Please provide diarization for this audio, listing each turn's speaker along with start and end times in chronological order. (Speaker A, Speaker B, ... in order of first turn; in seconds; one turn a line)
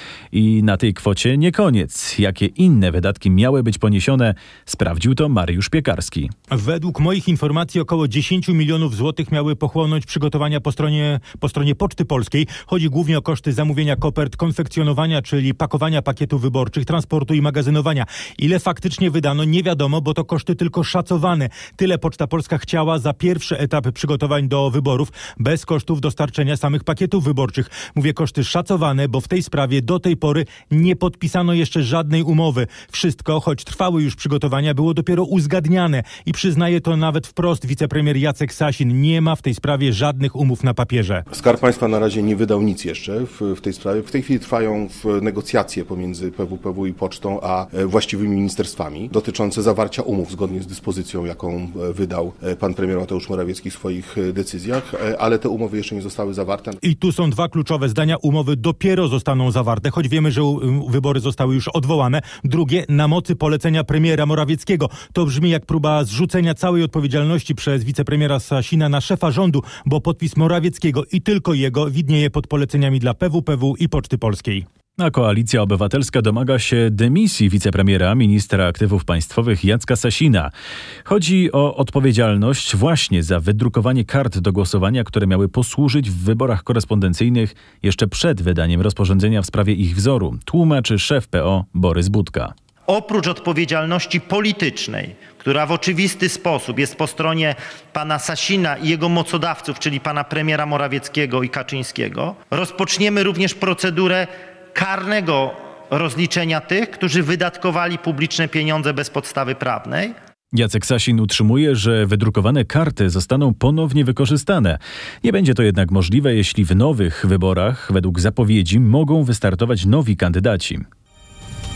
Speaker A: 0.3-6.3
Speaker B: 6.5-41.2
Speaker C: 41.3-56.8
Speaker B: 56.8-74.7
Speaker A: 75.0-80.5
Speaker A: 81.0-92.5
Speaker D: 92.9-110.1
Speaker A: 110.5-120.8